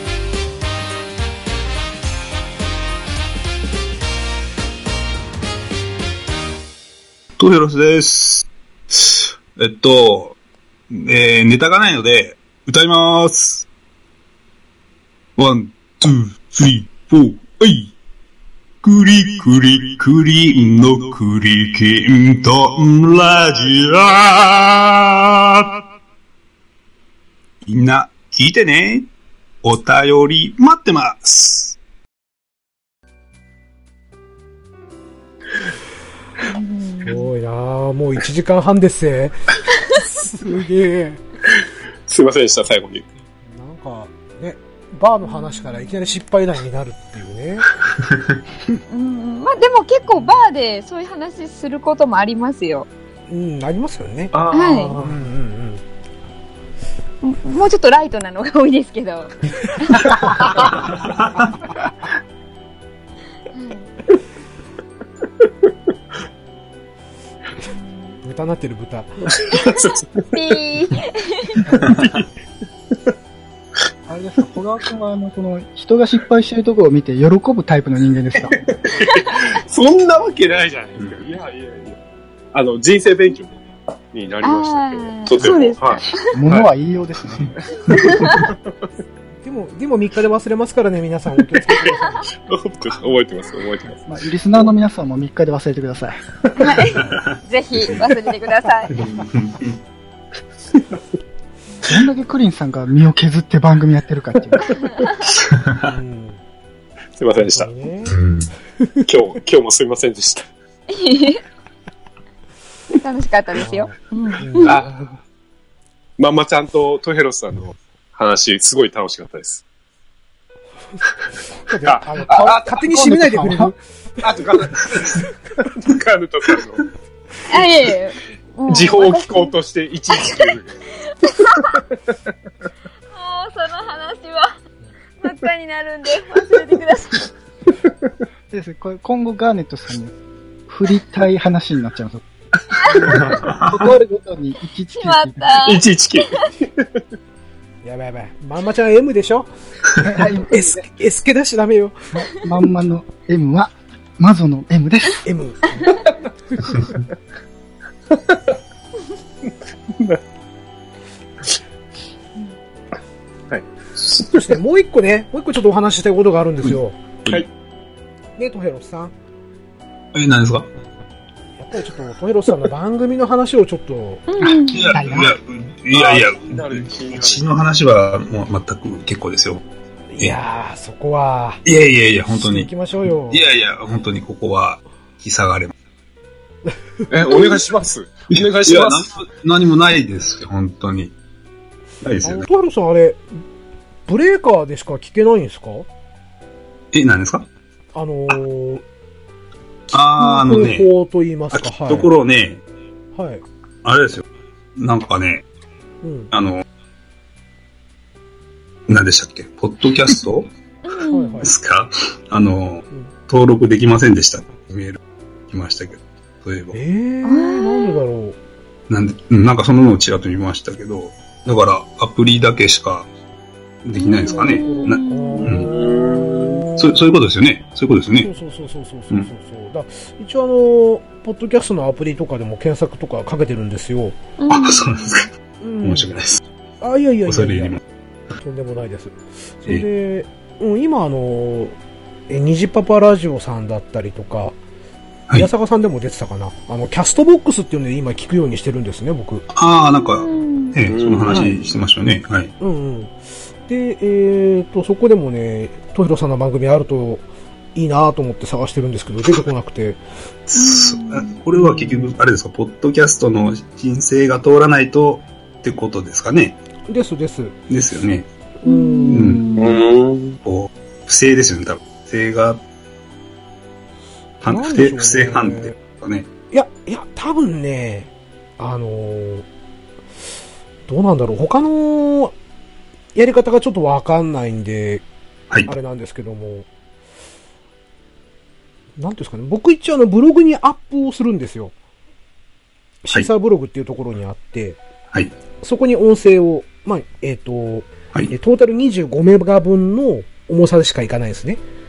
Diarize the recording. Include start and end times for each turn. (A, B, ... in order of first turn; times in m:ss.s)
0:07.4-0:10.4 A
0:10.9-0:13.6 A
0:15.4-0:17.9 A
0:18.8-0:25.8 A
0:27.6-0:29.1 A
0:29.6-0:31.8 A
0:36.4-0:37.2 B
0:37.0-0:41.2 C
0:42.1-0:43.0 D
0:43.4-0:47.7 C
0:48.9-0:52.9 B
0:50.1-0:50.4 C
0:53.3-0:55.8 C
0:54.3-0:55.2 D
0:54.5-0:55.0 B
0:57.2-1:00.7 B
0:59.7-1:00.5 C
1:03.5-1:03.9 B
1:08.2-1:09.3 C
1:09.3-1:10.2 D
1:10.3-1:11.7 B
1:11.8-1:12.3 D
1:14.1-1:18.6 E
1:18.4-1:22.0 D
1:22.5-1:23.6 D
1:24.1-1:26.7 D
1:24.4-1:26.3 B
1:26.3-1:27.5 E
1:27.9-1:28.5 D
1:27.9-1:28.4 B
1:29.4-1:32.3 C
1:31.5-1:31.9 D
1:32.4-1:34.1 D
1:34.1-1:36.3 E
1:36.6-1:38.9 B
1:37.0-1:37.9 A
1:38.9-1:39.8 A
1:41.8-1:44.8 E
1:44.9-1:45.2 B
1:45.3-1:45.9 A
1:45.8-1:46.4 C
1:47.2-1:47.7 D
1:47.4-1:48.2 C
1:48.1-1:48.5 A
1:49.0-1:50.5 D
1:50.9-1:51.4 B
1:53.0-1:54.8 B
1:53.6-1:54.8 C
1:54.6-1:55.2 D
1:56.2-1:59.6 D
2:01.6-2:03.8 C
2:01.8-2:03.6 D
2:02.3-2:03.7 E
2:04.2-2:06.8 D
2:07.5-2:09.5 B
2:08.7-2:10.8 D
2:10.1-2:10.6 B
2:11.2-2:11.8 B
2:13.1-2:14.5 B
2:15.2-2:17.3 B
2:18.5-2:20.1 E
2:20.7-2:22.2 E
2:22.7-2:23.1 B
2:22.9-2:25.5 E
2:23.0-2:23.4 C
2:23.5-2:23.8 A
2:24.9-2:26.5 B
2:25.6-2:27.0 D
2:27.8-2:29.5 C
2:30.0-2:30.8 E
2:30.0-2:32.0 C
2:32.1-2:35.2 E
2:35.2-2:36.0 C
2:36.5-2:36.8 C
2:38.1-2:38.4 D
2:39.4-2:40.2 D
2:43.5-2:44.5 D
2:44.3-2:47.0 C
2:48.4-2:49.1 C
2:50.1-2:50.7 A
2:51.6-2:54.3 C
2:54.3-2:55.0 B
2:54.4-2:59.6 A
2:54.9-2:55.3 E
2:55.9-2:57.5 D
3:00.1-3:01.6 C
3:01.6-3:02.7 A
3:02.3-3:03.4 C
3:03.3-3:05.7 A
3:07.1-3:09.0 D
3:08.3-3:11.1 A
3:12.0-3:12.5 A
3:12.2-3:13.4 C
3:14.1-3:15.9 C
3:16.9-3:17.5 A
3:17.9-3:18.8 C
3:19.9-3:20.9 A
3:20.0-3:22.1 C
3:21.5-3:22.6 A
3:23.1-3:23.4 C
3:23.8-3:24.2 A
3:24.8-3:25.4 A
3:26.0-3:26.3 C
3:26.3-3:26.6 A
3:28.9-3:30.5 A
3:30.8-3:31.4 B
3:31.1-3:31.5 C
3:31.4-3:35.0 A
3:35.5-3:36.7 A
3:36.7-3:38.4 C
3:37.2-3:38.0 B
3:38.9-3:43.1 A
3:43.8-3:45.7 A
3:44.0-3:45.5 B
3:44.3-3:46.9 C
3:45.6-3:46.6 D
3:46.8-3:48.3 A
3:48.2-3:54.2 C
3:54.4-3:55.1 B
3:54.5-3:55.3 A
3:55.6-3:56.2 C
3:55.8-3:56.4 A
3:56.8-3:57.8 C
3:57.3-3:57.8 A
3:58.4-4:01.8 C
4:02.3-4:04.6 C
4:05.3-4:09.4 C
4:09.5-4:12.5 A
4:09.8-4:10.8 B
4:10.8-4:11.5 D
4:11.2-4:11.6 C
4:12.6-4:13.1 C
4:13.6-4:20.0 C
4:20.5-4:26.6 A
4:20.5-4:21.4 B
4:21.5-4:22.1 C
4:26.9-4:27.6 C
4:27.7-4:28.3 A
4:28.6-4:29.6 C
4:28.6-4:29.8 B
4:29.1-4:29.5 A
4:29.6-4:30.4 D
4:30.4-4:32.6 A
4:34.4-4:36.3 A
4:34.4-4:35.8 C
4:36.5-4:39.4 C
4:40.9-4:42.3 C
4:43.1-4:45.0 C
4:45.6-4:46.7 C
4:49.0-4:51.7 C
4:53.0-4:54.8 C
4:55.6-5:01.6 C